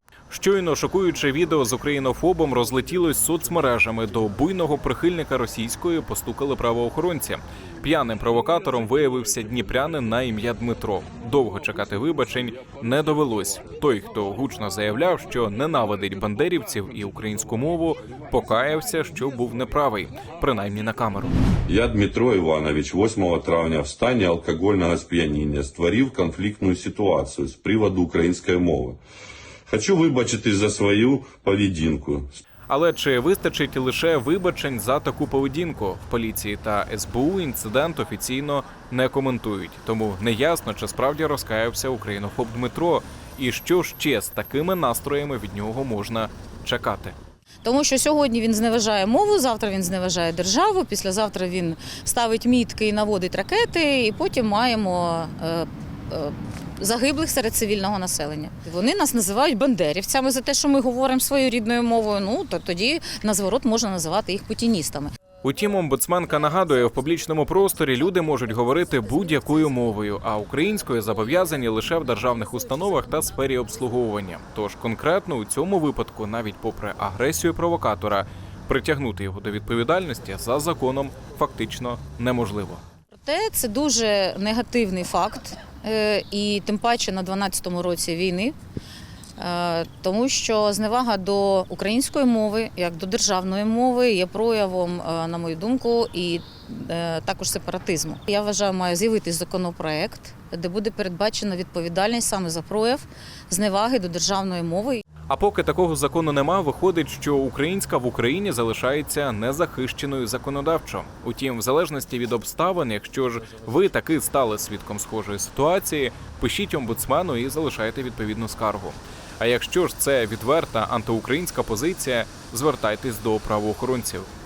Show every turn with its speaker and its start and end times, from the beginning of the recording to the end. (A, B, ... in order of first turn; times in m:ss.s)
0:00.3-0:21.3 A
0:21.7-0:29.0 B
0:29.7-0:32.4 B
0:32.7-0:47.2 A
0:47.6-1:05.1 C
1:05.4-1:22.8 A
1:23.1-1:28.5 C
1:29.4-1:45.0 C
1:45.3-2:04.3 A